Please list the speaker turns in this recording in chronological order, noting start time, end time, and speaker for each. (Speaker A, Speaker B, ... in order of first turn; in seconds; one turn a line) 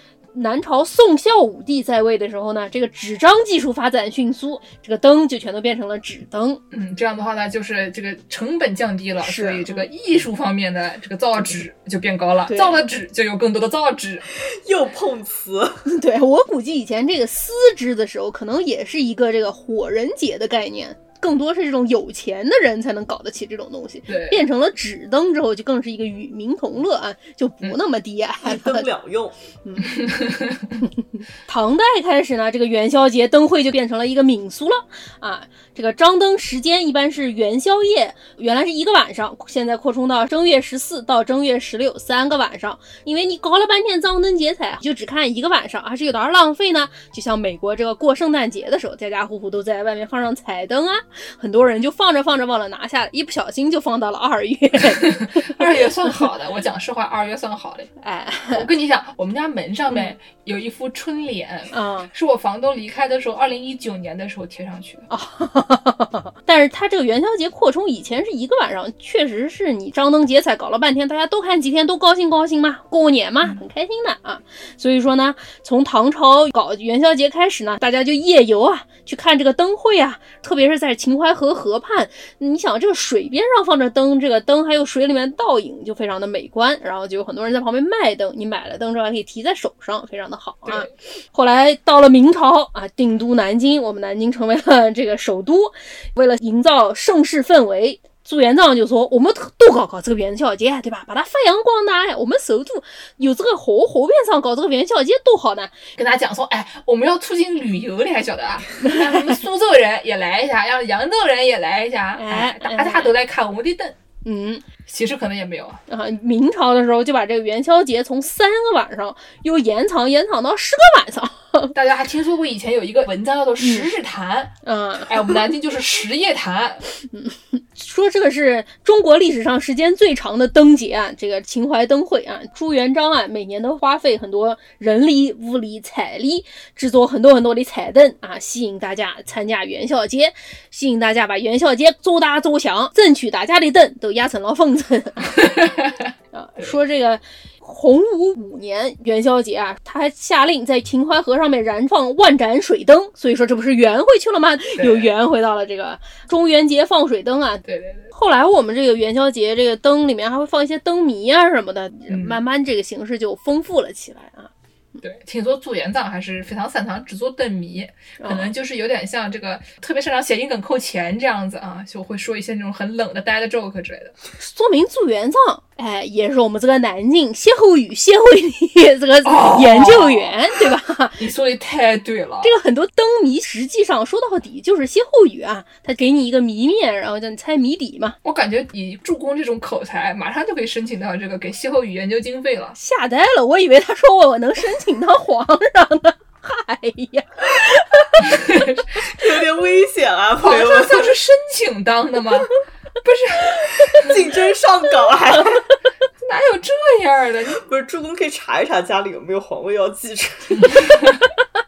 Speaker A: 0.3-6.6
Speaker B: 6.7-14.2
Speaker A: 9.2-9.8
Speaker A: 12.5-12.9
Speaker C: 14.5-15.8
Speaker A: 15.8-28.9
Speaker B: 24.1-24.4
Speaker C: 28.4-29.4
Speaker A: 29.6-30.1
Speaker B: 29.9-30.6
Speaker A: 30.8-56.2
Speaker B: 54.9-57.9
Speaker A: 58.0-58.7
Speaker B: 58.5-65.0
Speaker A: 61.7-62.1
Speaker A: 65.1-105.7
Speaker B: 90.6-90.9
Speaker B: 106.0-114.0
Speaker A: 108.8-109.3
Speaker A: 112.2-113.1
Speaker A: 114.2-114.6
Speaker B: 114.9-115.8
Speaker A: 115.9-121.7
Speaker B: 121.7-126.8
Speaker A: 123.6-123.9
Speaker A: 124.6-125.4
Speaker A: 127.0-145.6
Speaker B: 145.4-145.9
Speaker A: 146.3-164.5
Speaker B: 154.8-155.1
Speaker B: 157.6-158.1
Speaker B: 162.1-162.4
Speaker B: 165.0-174.1
Speaker A: 168.2-168.5
Speaker A: 174.4-181.2
Speaker B: 179.2-180.3
Speaker B: 181.2-182.5
Speaker A: 182.4-188.2
Speaker B: 188.2-192.8
Speaker A: 192.7-198.4
Speaker B: 198.3-198.8
Speaker C: 199.2-201.1
Speaker B: 200.4-202.5
Speaker B: 203.0-204.1
Speaker A: 203.6-204.0
Speaker C: 204.0-205.7
Speaker B: 206.2-207.6
Speaker C: 207.6-210.8
Speaker B: 210.7-210.9